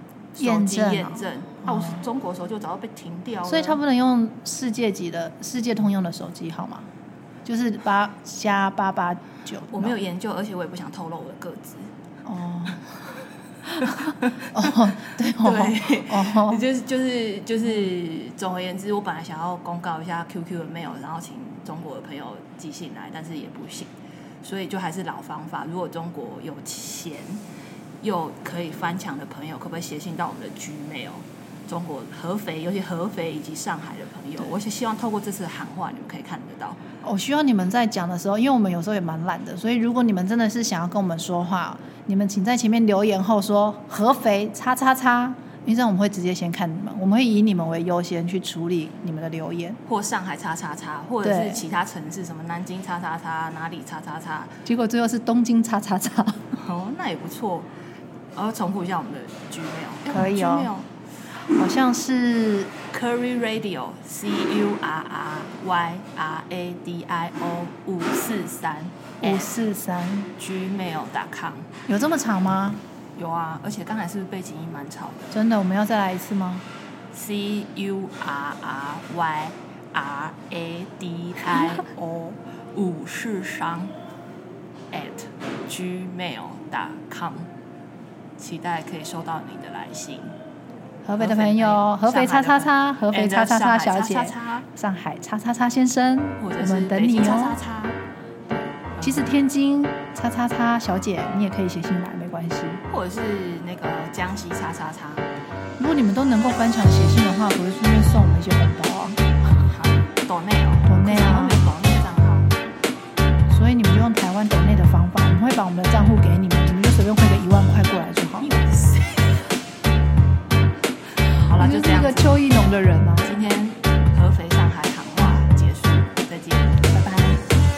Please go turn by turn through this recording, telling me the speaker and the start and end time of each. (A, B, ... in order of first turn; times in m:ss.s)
0:00.3-0:03.8 A
0:00.4-0:02.0 B
0:03.4-0:06.9 B
0:07.4-0:10.0 B
0:09.7-0:11.9 A
0:12.2-0:12.8 B
0:13.8-0:23.9 A
0:14.5-0:16.6 B
0:24.4-0:27.4 A
0:28.0-0:36.8 A
0:37.0-0:49.8 B
0:49.9-0:54.6 A
0:51.2-0:51.6 B
0:54.6-0:56.4 B
0:56.5-0:57.7 A
0:58.4-1:00.9 A
1:00.1-1:00.7 B
1:01.5-1:02.7 B
1:02.9-1:09.5 A
1:09.2-1:10.3 B
1:10.4-1:11.7 A
1:11.9-1:12.8 B
1:13.2-1:15.3 A
1:15.3-1:16.6 B
1:17.1-1:23.9 A
1:24.9-1:27.5 A
1:28.4-1:30.3 A
1:31.0-1:37.6 B
1:31.2-1:34.7 A
1:36.4-1:38.0 A
1:38.5-1:42.8 B
1:39.0-1:39.4 A
1:42.9-1:45.3 A
1:45.8-1:49.2 B
1:49.6-1:52.5 A
1:50.9-1:51.6 B
1:53.5-1:58.5 B
1:58.4-1:59.6 A
2:01.3-2:02.4 A
2:01.6-2:03.3 B
2:03.2-2:06.9 A
2:06.9-2:07.4 B